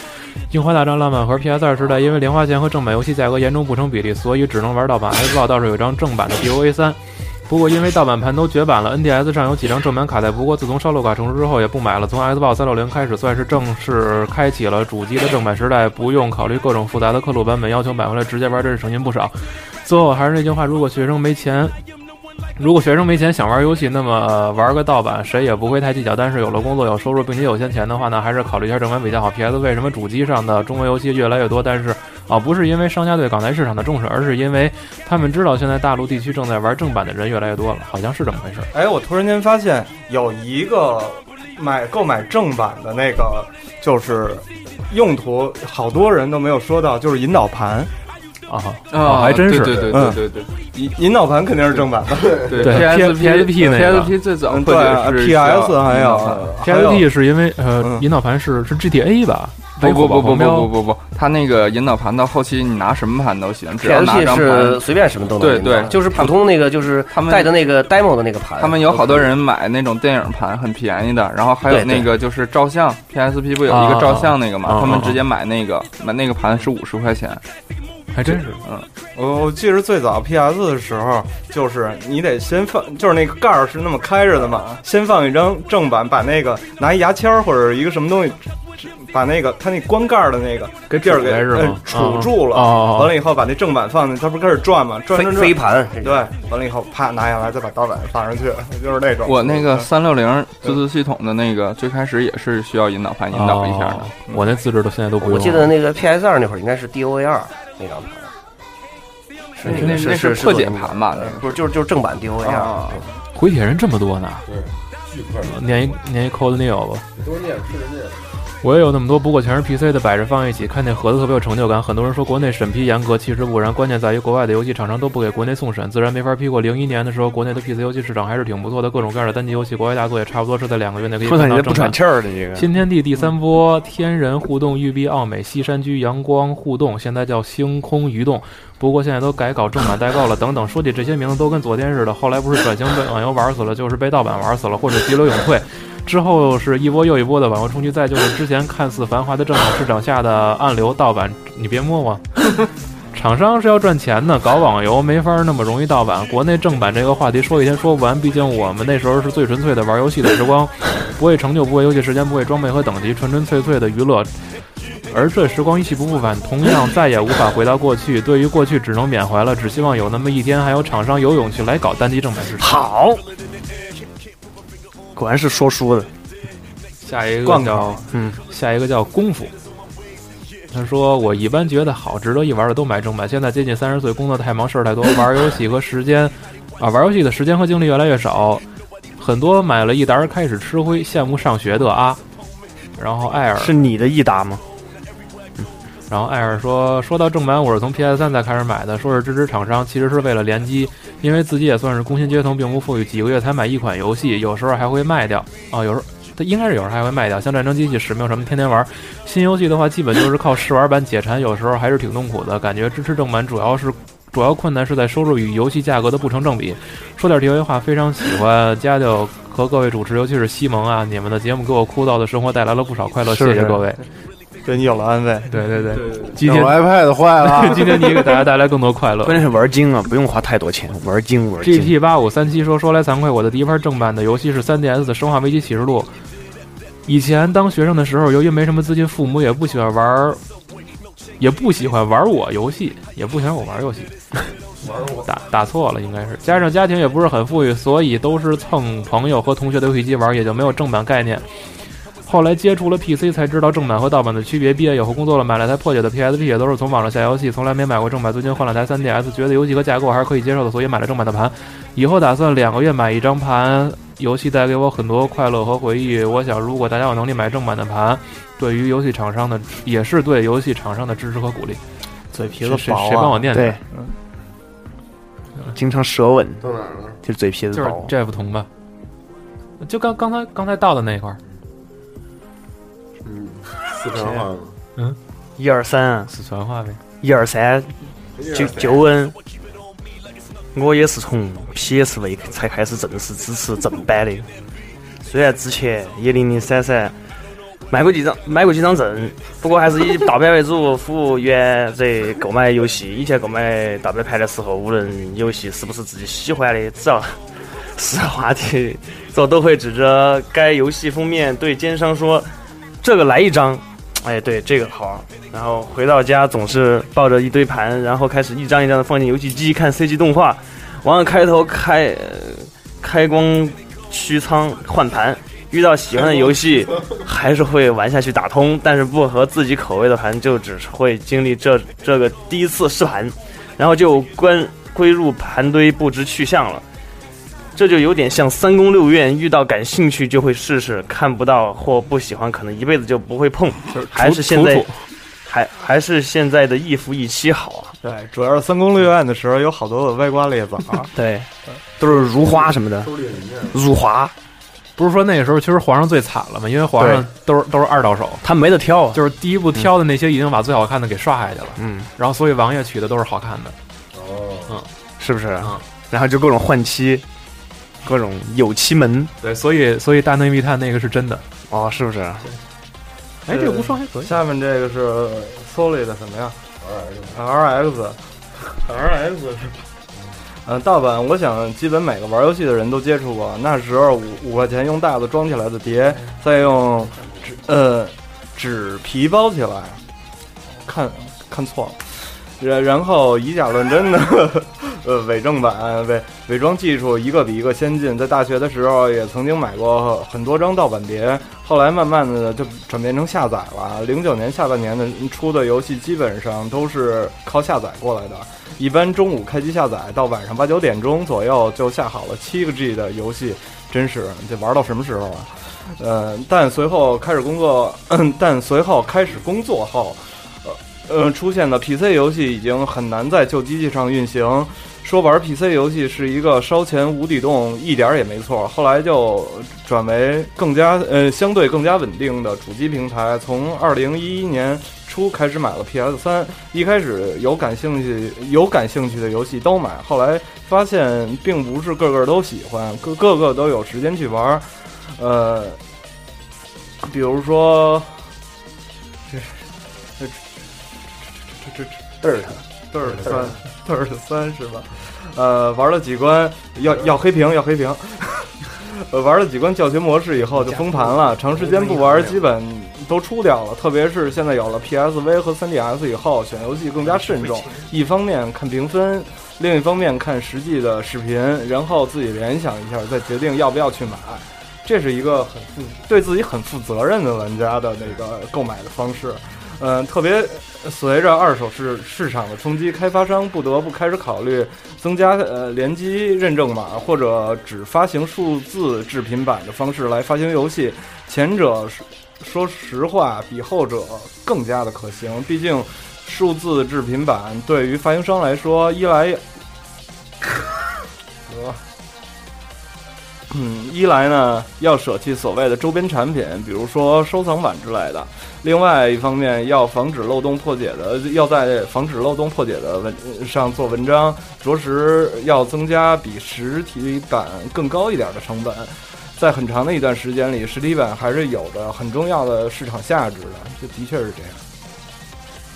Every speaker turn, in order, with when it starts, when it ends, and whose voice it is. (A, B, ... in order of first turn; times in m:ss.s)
0:00.5-0:21.8 A
0:22.6-0:38.7 A
0:38.7-0:47.9 B
0:48.5-0:49.9 A
0:48.9-0:50.5 C
0:49.9-0:52.8 B
0:52.3-0:56.5 C
0:52.6-0:54.1 A
0:54.4-0:57.1 B
0:56.6-1:00.7 A
0:57.8-0:58.1 B
0:59.8-1:04.8 C
1:03.8-1:09.3 D
1:05.4-1:06.4 C
1:07.1-1:07.5 C
1:08.6-1:17.4 C
1:11.7-1:12.1 D
1:13.7-1:15.2 A
1:18.1-1:18.6 A
1:19.1-1:39.9 B
1:30.9-1:33.2 A
1:35.1-1:36.3 D
1:39.2-1:44.1 C
1:43.3-1:45.7 A
1:45.2-1:48.3 D
1:49.6-1:53.0 D
1:49.6-1:51.5 C
1:53.3-1:54.5 A
1:54.5-1:55.8 E
1:55.4-1:57.0 A
1:57.2-1:58.2 E
1:58.6-2:12.0 A
2:11.2-2:12.7 F
2:12.5-2:32.5 A
2:33.1-2:44.3 A
2:45.1-2:52.7 A
2:52.6-2:53.2 F
2:55.1-2:56.1 F
2:57.0-2:59.5 A
2:57.4-2:58.0 B
2:58.1-2:58.4 F
3:00.7-3:08.6 A
3:09.2-3:12.2 A
3:13.0-3:13.7 A
3:13.6-3:14.6 F
3:16.1-3:44.0 A
3:43.2-3:43.8 F
3:44.6-3:45.6 B
3:45.5-3:46.8 A
3:46.3-3:48.2 E
3:47.4-3:49.4 A
3:49.2-3:51.9 F
3:51.6-3:56.1 A
3:57.1-4:00.4 A
4:01.4-4:04.1 A
4:05.2-4:11.4 A
4:12.2-4:31.8 A
4:32.3-4:33.4 B
4:32.6-4:33.8 A
4:33.4-4:33.8 F
4:35.7-4:36.7 F
4:36.6-4:37.2 E
4:37.2-4:38.1 F
4:37.7-4:38.7 A
4:39.8-4:41.4 A
4:43.2-4:44.7 E
4:44.2-4:44.4 F
4:45.6-4:46.3 F
4:46.3-4:47.0 A
4:47.2-4:49.3 F
4:48.4-4:49.0 E
4:50.7-4:54.5 F
4:55.2-4:57.1 F
4:57.9-5:12.5 F
5:13.0-5:36.8 F
5:37.7-5:47.9 F
5:44.2-5:44.7 C
5:48.0-5:51.1 B
5:51.1-5:53.2 F
5:52.4-5:53.8 E
5:53.7-5:54.3 F
5:55.0-5:58.4 A
5:57.0-5:57.2 F
5:58.4-5:59.2 F
5:59.1-6:03.8 A
6:01.8-6:02.1 F
6:04.1-6:04.6 E
6:05.2-6:07.2 F
6:08.0-6:09.3 F
6:09.4-6:11.4 A
6:11.7-6:12.5 F
6:13.4-6:14.4 A
6:13.5-6:16.6 B
6:17.3-6:19.8 B
6:20.6-6:30.0 B
6:30.8-7:25.8 B
7:27.0-7:28.3 B
7:29.3-7:29.6 B
7:31.5-7:32.0 B
7:32.9-8:19.4 B
8:21.5-8:21.8 B
8:23.5-8:44.6 B